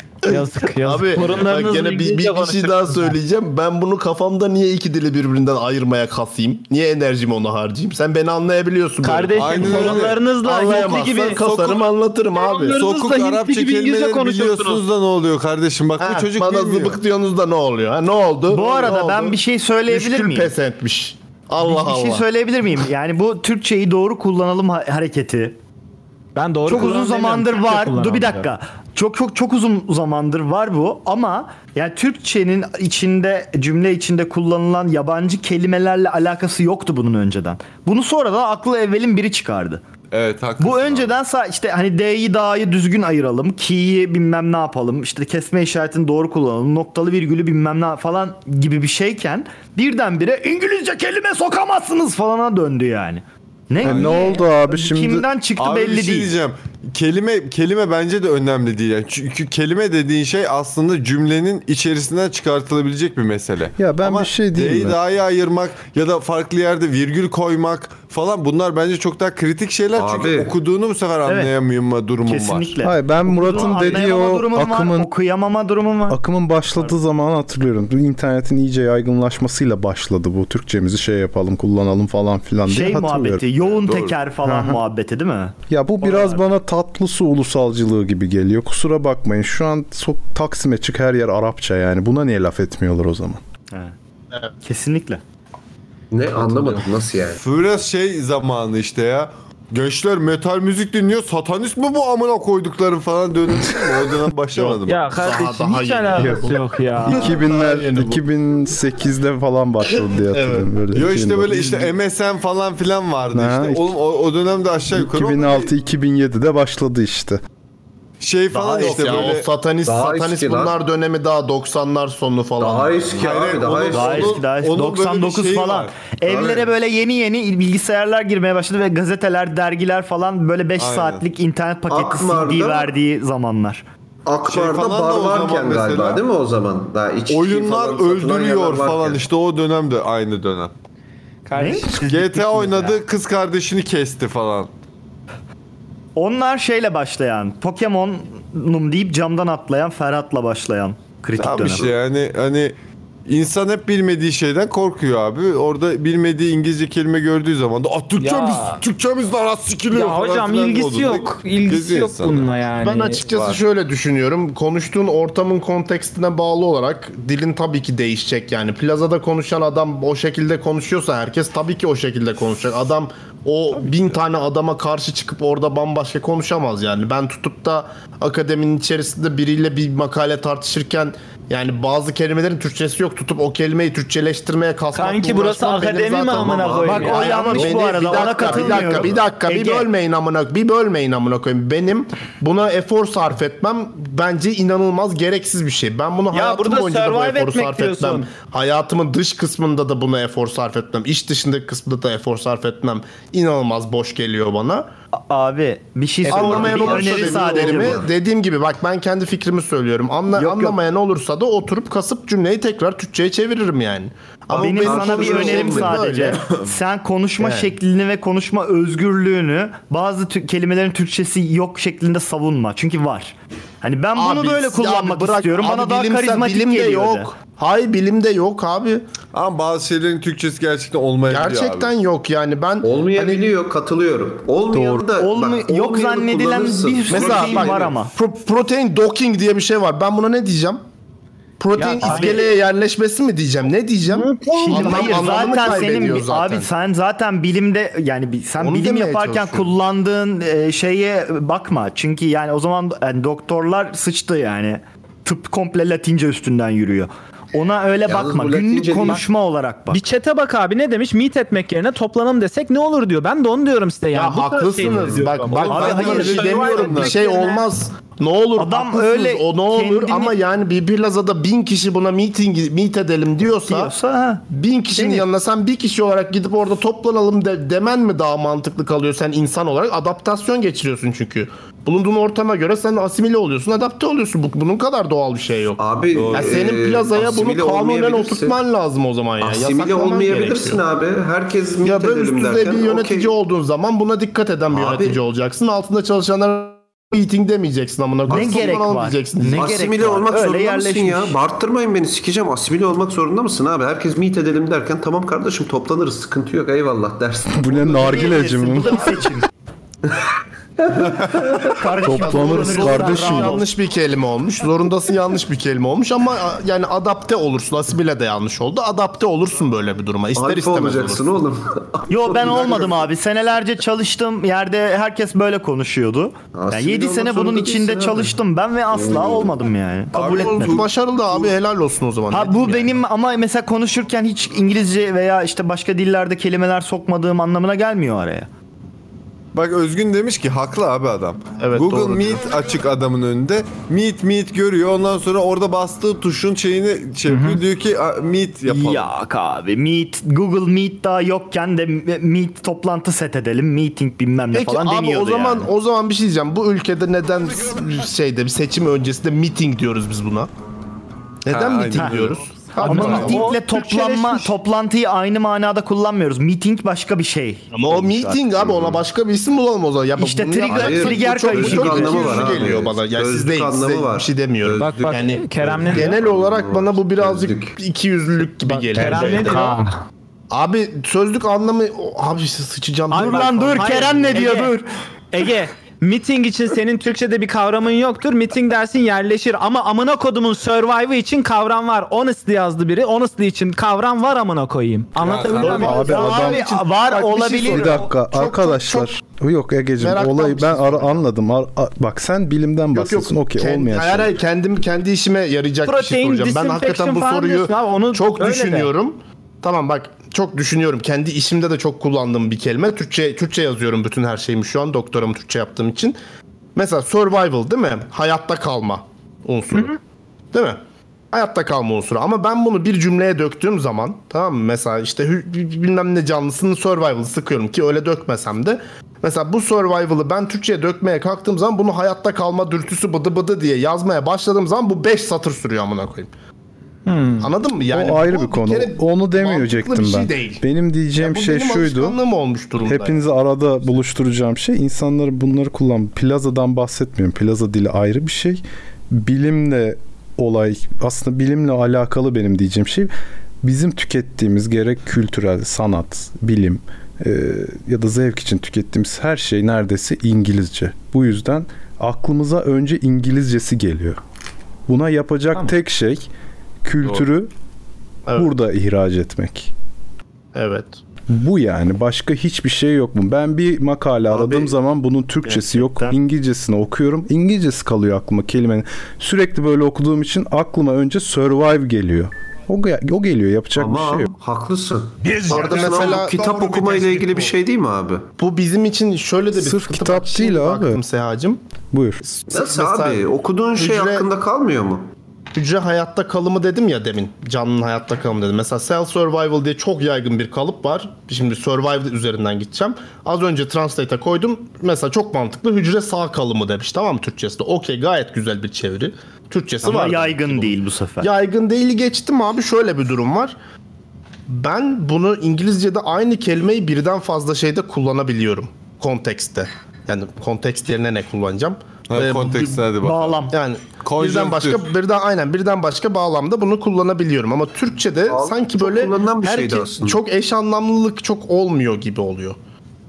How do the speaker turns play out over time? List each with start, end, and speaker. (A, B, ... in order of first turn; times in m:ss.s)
0:00.2-0:12.8 A
0:00.3-0:03.2 B
0:09.0-0:11.5 B
0:09.4-0:10.2 C
0:11.4-0:11.8 C
0:12.3-0:14.8 B
0:12.7-0:17.0 C
0:16.0-0:22.3 A
0:18.5-0:20.5 D
0:21.6-0:25.6 D
0:26.4-0:28.5 B
0:26.7-0:39.8 D
0:40.1-0:41.2 C
0:40.6-0:56.3 D
0:53.8-0:55.3 E
0:53.8-0:54.2 C
0:55.6-1:12.7 C
1:03.8-1:05.0 E
1:10.0-1:10.5 F
1:11.3-1:11.5 D
1:12.2-1:16.2 D
1:12.8-1:15.1 E
1:13.7-1:14.0 C
1:16.1-1:23.4 E
1:22.7-1:26.5 D
1:23.6-1:24.2 C
1:24.4-1:24.8 E
1:25.7-1:33.4 E
1:34.6-1:35.2 D
1:36.1-1:37.4 F
1:36.4-1:45.0 C
1:44.6-1:48.2 A
1:44.9-1:47.4 B
1:46.2-1:46.5 E
1:47.1-1:51.9 E
1:49.9-1:50.7 A
1:50.9-1:55.7 C
1:53.3-1:53.9 E
1:54.9-1:57.4 E
1:58.2-1:59.5 C
1:58.6-1:59.0 D
1:58.7-2:03.2 A
1:59.8-2:00.8 F
2:02.6-2:04.4 F
2:03.2-2:06.6 C
2:03.9-2:13.8 D
2:10.8-2:11.2 C
2:11.9-2:12.9 F
2:14.2-2:19.3 F
2:14.4-2:16.2 C
2:17.3-2:20.7 C
2:21.4-2:22.7 B
2:21.6-2:22.9 D
2:21.9-2:24.7 C
2:26.2-2:31.9 D
2:31.4-2:32.8 C
2:33.3-2:42.5 C
2:38.2-2:38.8 B
2:39.9-2:43.2 B
2:42.8-3:24.9 A
2:43.3-2:43.6 C
3:04.9-3:08.6 B
3:06.2-3:07.2 F
3:06.9-3:09.9 D
3:08.2-3:09.2 F
3:16.3-3:18.3 B
3:25.1-3:28.0 D
3:26.3-3:36.4 A
3:26.3-3:28.1 F
3:26.4-3:26.9 B
3:30.3-3:30.8 D
3:34.5-3:47.3 D
3:34.8-3:36.7 F
3:37.4-3:37.7 A
3:44.2-3:49.0 A
3:49.3-3:51.9 C
3:51.3-3:53.5 A
3:52.8-3:57.8 F
3:54.7-3:55.0 E
3:55.2-3:58.1 D
3:57.1-4:00.8 A
3:57.2-3:57.5 C
4:01.6-4:06.7 A
4:01.8-4:02.5 B
4:02.0-4:02.4 D
4:04.3-4:06.0 B
4:04.5-4:20.0 D
4:08.6-4:09.7 A
4:18.0-4:19.2 F
4:19.9-4:27.6 B
4:24.1-4:33.9 A
4:24.8-4:27.2 C
4:25.7-4:26.5 D
4:28.6-4:30.4 D
4:33.7-4:34.4 D
4:34.5-4:50.8 A
4:35.0-4:35.2 D
4:45.8-4:48.6 F
4:46.1-4:46.6 C
4:49.4-4:53.3 F
4:51.8-4:59.7 A
4:54.7-4:55.2 F
4:58.3-4:58.7 F
4:58.3-5:01.4 D
4:59.5-5:08.2 F
5:07.5-5:09.2 E
5:07.9-5:09.5 D
5:10.1-5:11.8 F
5:11.7-5:13.7 D
5:12.0-5:13.6 E
5:12.2-5:21.3 A
5:20.4-5:22.9 F
5:22.1-5:30.9 D
5:26.5-5:28.3 F
5:28.9-5:29.6 F
5:30.2-5:30.9 C
5:30.2-5:32.9 A
5:32.3-5:38.5 D
5:39.5-5:49.1 C
5:41.6-5:42.4 A
5:47.3-5:47.6 B
5:48.7-5:55.7 D
5:54.5-6:00.5 A
6:01.4-6:03.6 A
6:01.5-6:02.4 C
6:02.8-6:04.5 B
6:02.8-6:08.4 D
6:07.7-6:19.8 A
6:08.5-6:09.0 F
6:10.2-6:12.6 D
6:10.7-6:17.8 F
6:14.8-6:16.2 B
6:18.6-6:20.0 B
6:19.0-6:19.7 D
6:20.5-6:24.4 A
6:23.1-6:24.8 B
6:23.1-6:24.9 D
6:25.3-6:36.3 B
6:35.2-6:35.7 C
6:35.3-6:39.2 A
6:35.6-6:36.7 E
6:35.6-6:38.1 D
6:37.7-6:44.4 E
6:40.0-6:41.2 A
6:42.9-6:56.2 A
6:45.8-6:48.9 B
6:56.8-6:59.9 A
7:00.5-7:00.8 A
7:01.3-7:16.3 A
7:17.0-7:17.5 B
7:17.4-7:20.6 A
7:17.9-7:22.2 E
7:21.2-7:23.2 A
7:22.8-7:33.1 E
7:33.6-7:44.2 E
7:44.9-7:46.3 E
7:46.8-7:47.5 E
7:48.4-7:49.7 E
7:50.6-7:51.0 A
7:51.3-8:04.3 E
7:54.3-7:54.7 A
7:55.4-7:56.2 D
8:03.8-8:08.3 F
8:05.4-8:07.5 A
8:05.7-8:07.2 C
8:08.4-8:11.6 A
8:09.5-8:11.0 E
8:11.9-8:12.2 E
8:12.2-8:14.3 A
8:12.5-8:15.1 F
8:15.5-8:33.6 A
8:29.8-8:31.3 D
8:34.5-8:42.9 A
8:42.1-8:43.4 C
8:43.0-8:43.6 D
8:43.5-8:52.6 A
8:44.0-8:44.9 C
8:48.3-8:50.2 F